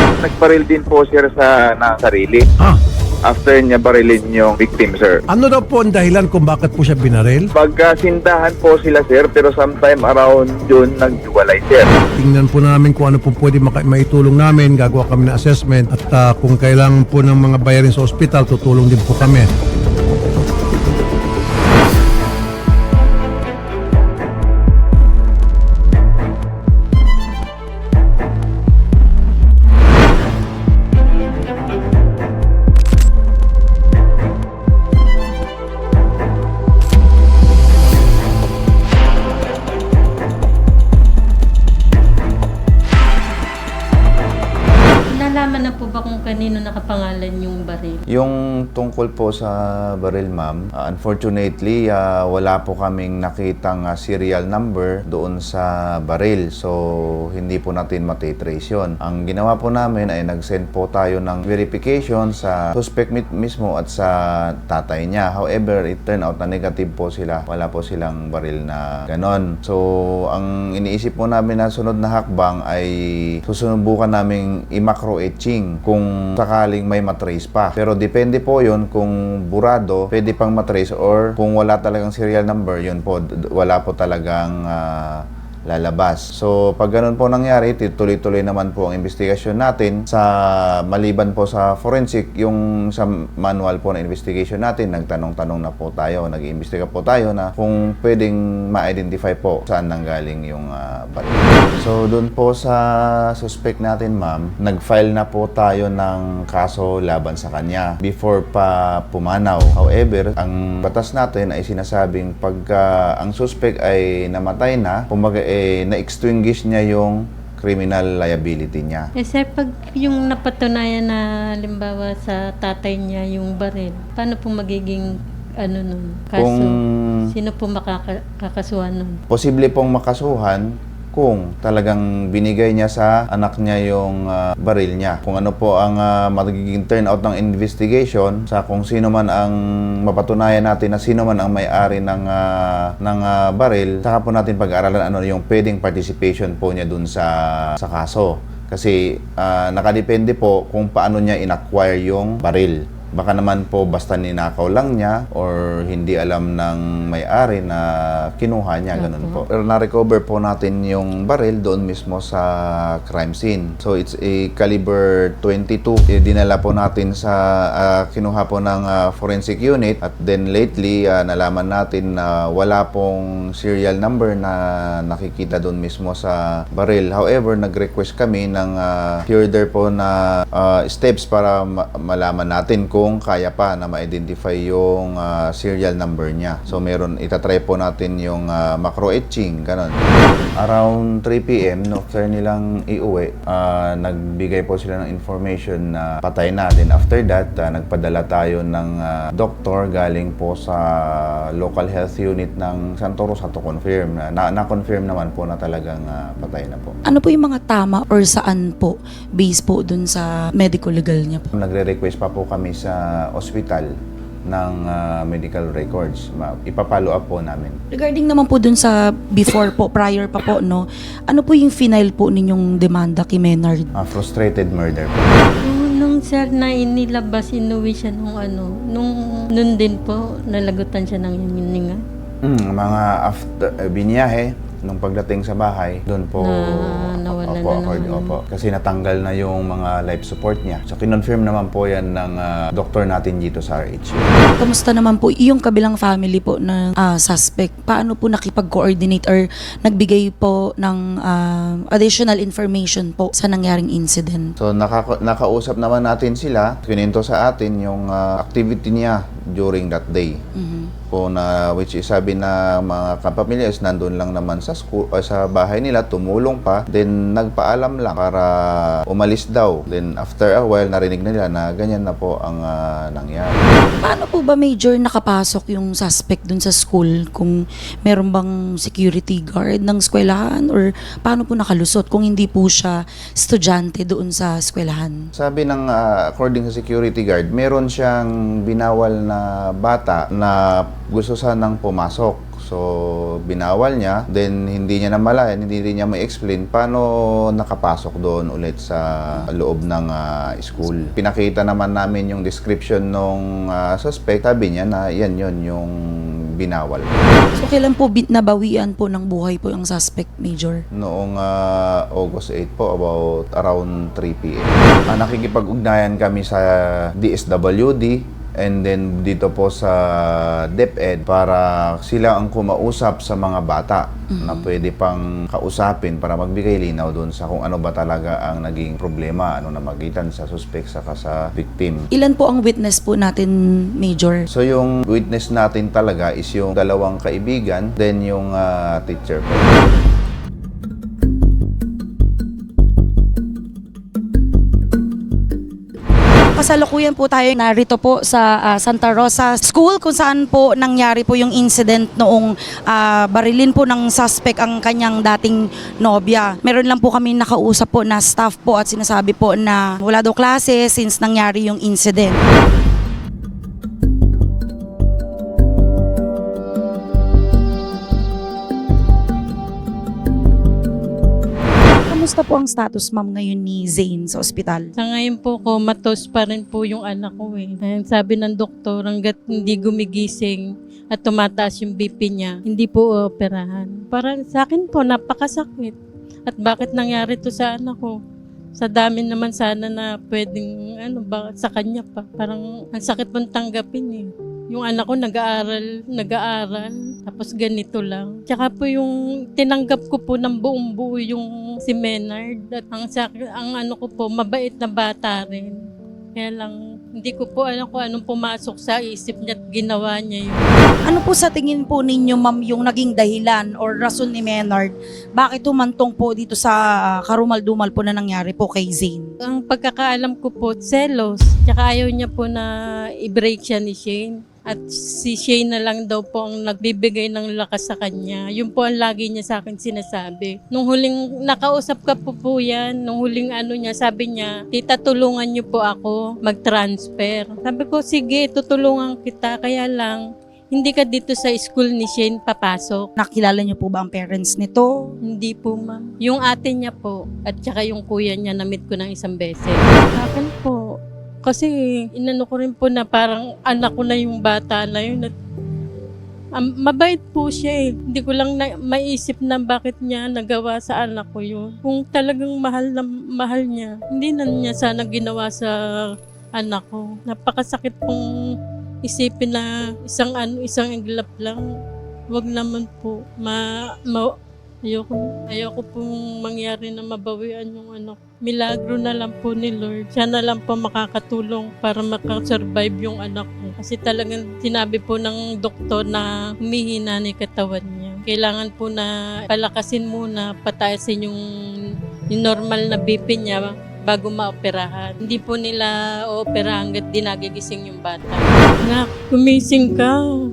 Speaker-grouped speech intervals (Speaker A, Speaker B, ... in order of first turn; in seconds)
Speaker A: 0.2-2.4, 3.3-5.1, 7.6-11.9
Speaker B: 5.3-7.5, 12.2-19.5
Speaker C: 45.1-48.0, 119.2-125.1, 125.6-126.7, 127.3-129.2, 159.0-159.4, 225.7-232.0, 236.4-238.4, 375.0-385.9, 386.5-388.1, 388.8-405.8, 406.4-410.7, 419.4-422.7, 423.2-443.0, 445.3-450.8, 451.4-455.3, 456.6-465.7, 466.6-468.2, 469.0-471.6, 472.3-474.3, 474.9-491.4, 492.3-500.2
Speaker D: 48.1-56.8, 57.3-64.1, 64.7-72.9, 73.5-102.8, 103.4-119.1, 126.4-127.2, 129.3-190.0, 190.6-200.8, 201.6-206.9, 211.6-213.9, 214.5-217.8, 224.0-225.5, 232.4-244.3, 254.6-260.4, 261.1-268.5, 269.1-273.6, 285.4-292.9, 293.5-305.9, 306.6-307.2, 310.9-316.7, 317.2-332.1, 334.5-339.7
Speaker E: 207.1-211.5, 217.9-223.9, 244.6-254.5, 260.6-260.9, 274.0-285.2, 307.6-310.8, 324.4-324.7, 332.1-334.4, 346.6-362.4, 372.1-374.9, 411.1-419.3, 443.2-445.1